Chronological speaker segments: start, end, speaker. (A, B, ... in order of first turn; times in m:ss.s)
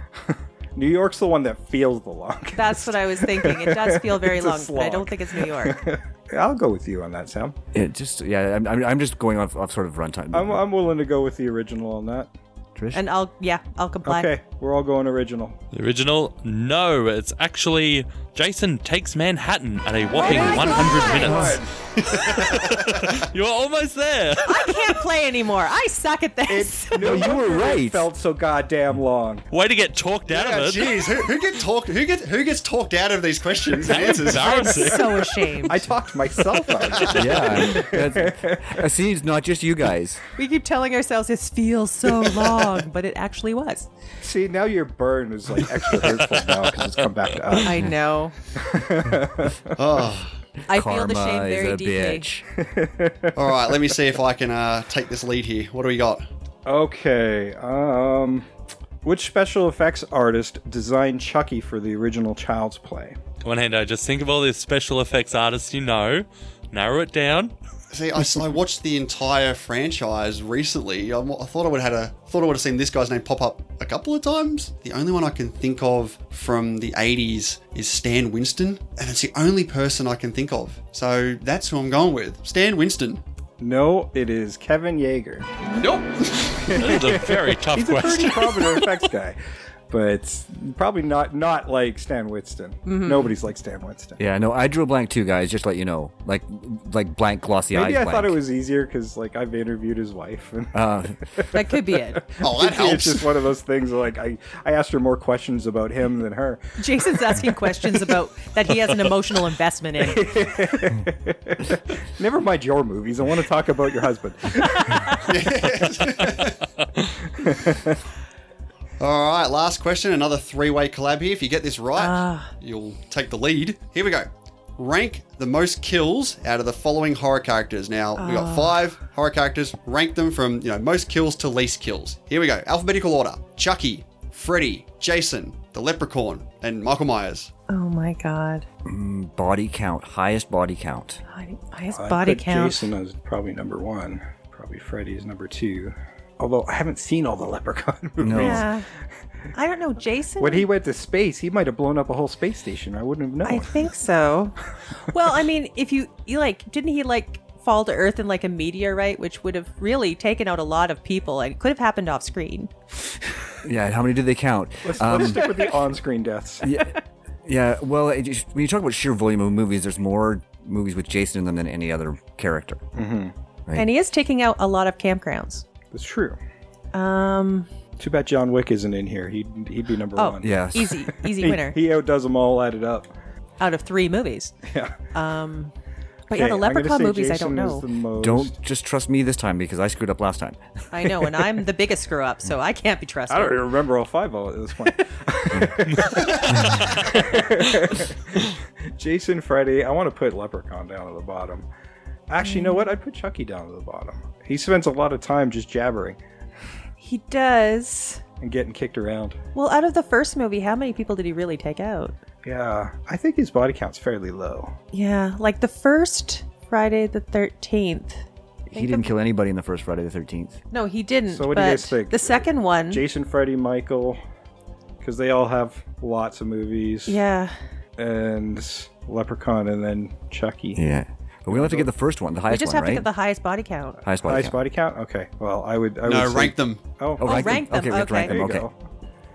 0:00.2-0:07.6 A
0:02.5-0:05.8 B
0:07.7-0:10.6 C
0:10.3-0:12.3 A
0:12.7-0:13.0 C
0:12.9-0:14.3 B
0:14.0-0:15.6 A
0:15.7-0:21.6 D
0:20.2-0:21.6 A
0:20.2-0:21.5 B
0:21.2-0:21.6 C
0:22.0-0:23.2 E
0:22.4-0:24.8 D
0:24.4-0:27.1 B
0:26.5-0:29.4 A
0:27.0-0:28.1 C
0:29.5-0:31.2 D
0:30.3-0:34.7 E
0:33.8-0:35.3 D
0:34.3-0:35.8 B
0:34.8-0:35.1 A
0:35.6-0:38.8 A
0:36.8-0:37.4 E
0:37.1-0:40.2 C
0:40.4-0:43.9 B
0:44.2-0:47.9 A
0:47.6-0:48.3 B
0:48.6-0:49.7 A
0:49.8-0:50.3 E
0:50.7-0:52.2 B
0:50.7-0:52.4 C
0:52.6-0:53.7 A
0:53.4-0:56.2 E
0:56.6-0:58.4 A
0:59.0-1:03.2 A
1:03.4-1:07.5 D
1:07.9-1:23.2 E
1:23.6-1:25.5 A
1:25.7-1:26.8 E
1:26.6-1:29.4 A
1:26.7-1:28.9 D
1:29.9-1:34.2 A
1:32.9-1:33.3 B
1:34.2-1:38.4 C
1:37.7-1:40.8 A
1:40.7-1:41.2 C
1:41.4-1:46.6 A
1:41.5-1:42.2 B
1:42.4-1:43.3 E
1:46.8-1:50.3 B
1:47.2-1:47.5 A
1:50.0-1:55.2 A
1:54.7-1:55.2 B
1:55.2-1:56.6 E
1:57.3-1:58.0 A
1:59.0-2:17.5 E
2:02.0-2:02.5 B
2:08.2-2:08.8 B
2:17.7-2:18.6 B
2:18.8-2:21.2 C
2:21.3-2:22.9 B
2:21.9-2:28.7 A
2:28.2-2:28.6 C
2:28.3-2:28.9 B
2:29.5-2:30.7 B
2:30.4-2:33.8 A
2:33.4-2:34.6 B
2:35.1-2:42.7 B
2:43.6-2:45.4 C
2:44.8-2:46.7 A
2:45.2-2:45.5 B
2:46.6-2:52.8 C
2:53.0-2:53.3 A
2:53.7-2:55.6 B
2:55.9-2:56.4 A
2:56.9-2:57.7 B
2:58.0-3:03.1 A
3:00.1-3:01.8 B
3:00.4-3:01.0 C
3:03.6-3:04.6 B
3:04.7-3:04.9 A
3:05.1-3:05.7 B
3:06.3-3:07.9 B
3:06.3-3:08.5 A
3:08.2-3:10.6 C
3:10.9-3:13.6 B
3:13.3-3:21.6 A
3:16.6-3:17.0 D
3:22.3-3:26.2 A
3:22.4-3:22.9 B
3:27.0-3:28.2 B
3:28.4-3:29.4 A
3:29.6-3:32.2 B
3:32.4-3:34.7 A
3:34.9-3:39.1 B
3:38.7-3:40.6 C
3:40.7-3:43.0 B
3:41.3-3:44.2 A
3:45.0-3:47.2 A
3:47.1-3:47.5 B
3:48.0-3:50.8 A
3:50.8-3:53.1 C
3:51.5-3:51.9 A
3:52.5-3:54.0 B
3:54.0-3:54.6 C
3:54.2-3:57.6 A
3:56.0-3:56.8 E
3:57.2-3:58.7 C
3:57.2-3:58.4 B
3:58.1-3:58.7 A